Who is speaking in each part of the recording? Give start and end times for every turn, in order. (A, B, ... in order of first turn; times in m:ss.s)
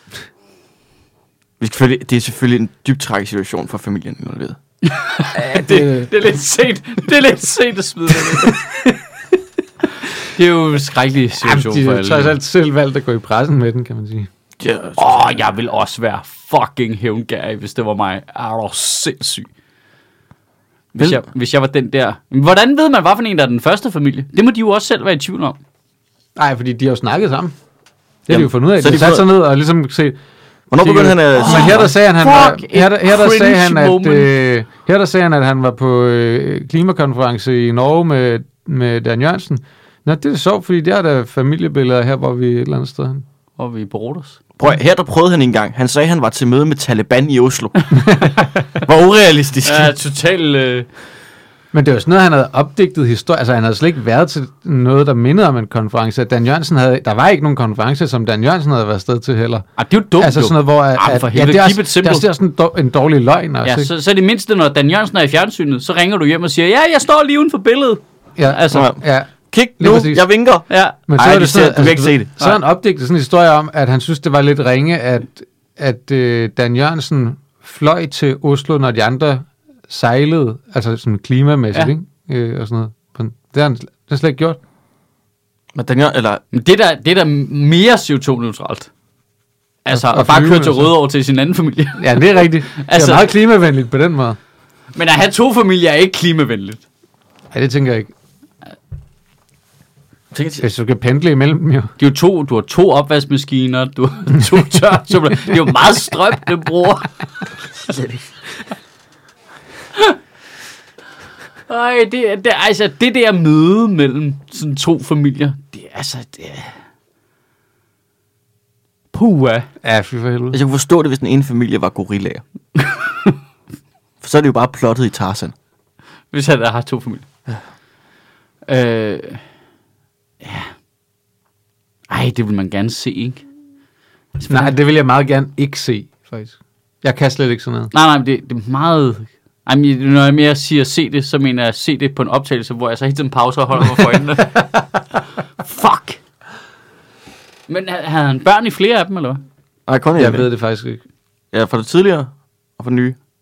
0:01.6-0:04.6 A
0:04.8-0:08.6 B
0:05.4-0:06.1 C
0:08.3-0:09.0 C
0:10.2-0:12.3 B
0:11.4-0:14.3 C
0:14.6-0:15.4 A
0:15.0-0:19.5 B
0:20.9-0:25.6 B
0:21.0-0:21.2 A
0:26.4-0:27.5 C
0:28.3-0:30.2 C
0:28.3-0:29.2 A
0:30.7-0:31.9 A
0:30.8-0:43.2 C
0:31.3-0:34.3 B
0:43.6-0:44.4 B
0:44.6-0:49.9 A
0:49.6-0:50.9 B
0:51.7-0:59.7 C
0:59.8-1:02.2 B
1:00.2-1:03.9 C
1:03.6-1:08.9 B
1:08.4-1:10.2 C
1:08.7-1:12.3 A
1:10.7-1:11.0 B
1:11.1-1:24.6 C
1:25.7-1:26.4 A
1:26.5-1:28.9 B
1:29.8-1:33.3 B
1:29.9-1:30.9 C
1:32.0-1:34.4 C
1:34.9-1:36.8 B
1:37.5-1:38.1 C
1:40.3-1:40.6 A
1:40.6-1:41.9 C
1:42.0-1:47.1 B
1:47.8-1:48.2 B
1:51.7-1:56.7 B
1:59.1-1:59.7 B
1:59.8-2:00.6 C
2:00.5-2:02.4 A
2:02.8-2:03.4 B
2:04.2-2:05.5 A
2:06.3-2:07.2 B
2:08.7-2:09.4 B
2:10.4-2:10.7 B
2:12.1-2:13.4 B
2:14.4-2:14.7 B
2:14.5-2:17.9 C
2:17.9-2:24.7 B
2:25.6-2:26.2 B
2:27.7-2:29.4 B
2:29.9-2:30.5 A
2:30.2-2:31.0 C
2:31.5-2:33.2 A